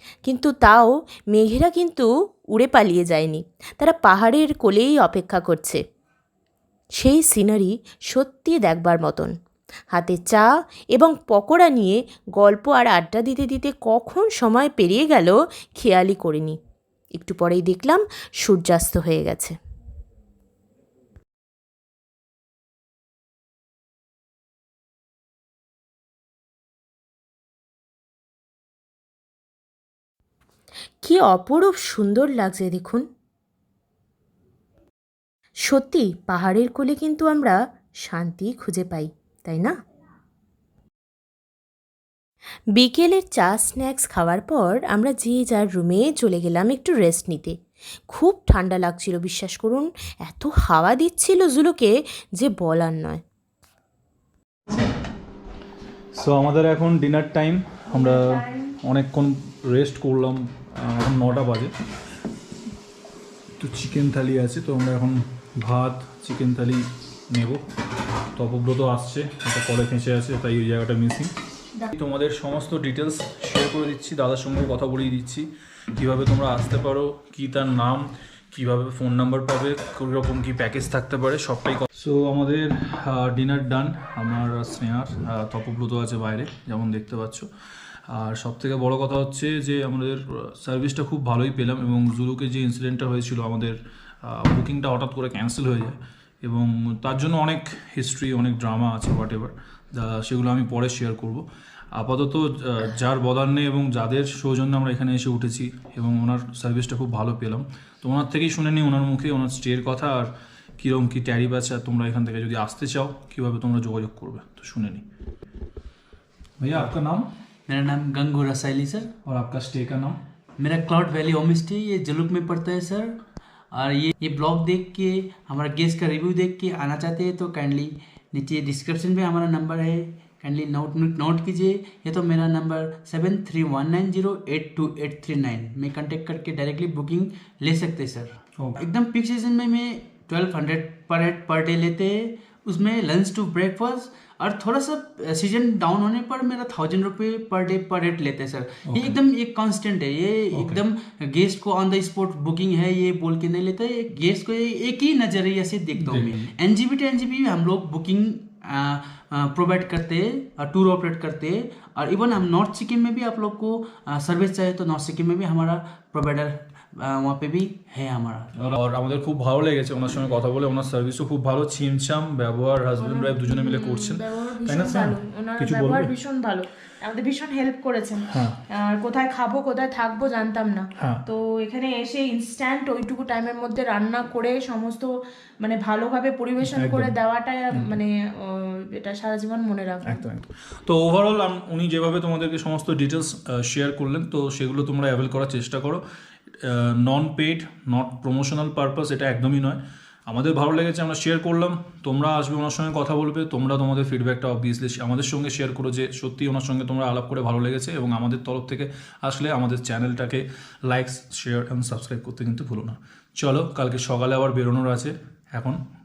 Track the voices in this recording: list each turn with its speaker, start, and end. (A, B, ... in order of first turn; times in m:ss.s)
0:00.2-0:05.8 A
0:07.0-0:09.3 A
0:09.9-0:16.6 A
0:17.2-0:19.5 A
0:31.0-0:33.1 A
0:35.7-0:37.6 A
0:38.1-0:39.7 A
0:42.8-0:47.5 A
0:48.1-0:53.2 A
0:56.1-1:01.7 B
0:57.9-0:58.7 C
1:03.6-1:07.6 B
1:08.4-1:11.3 B
1:11.9-1:27.5 B
1:28.1-1:55.0 B
1:56.6-1:57.3 B
1:57.7-1:59.1 D
1:59.2-2:00.2 B
2:00.6-2:03.1 D
2:03.7-2:48.5 D
2:28.9-2:29.2 B
2:30.5-2:30.8 B
2:36.0-2:36.5 B
2:48.6-2:56.1 B
2:53.0-3:10.2 C
2:58.3-2:58.6 B
3:06.6-3:07.2 B
3:10.0-3:16.0 B
3:16.6-3:35.8 B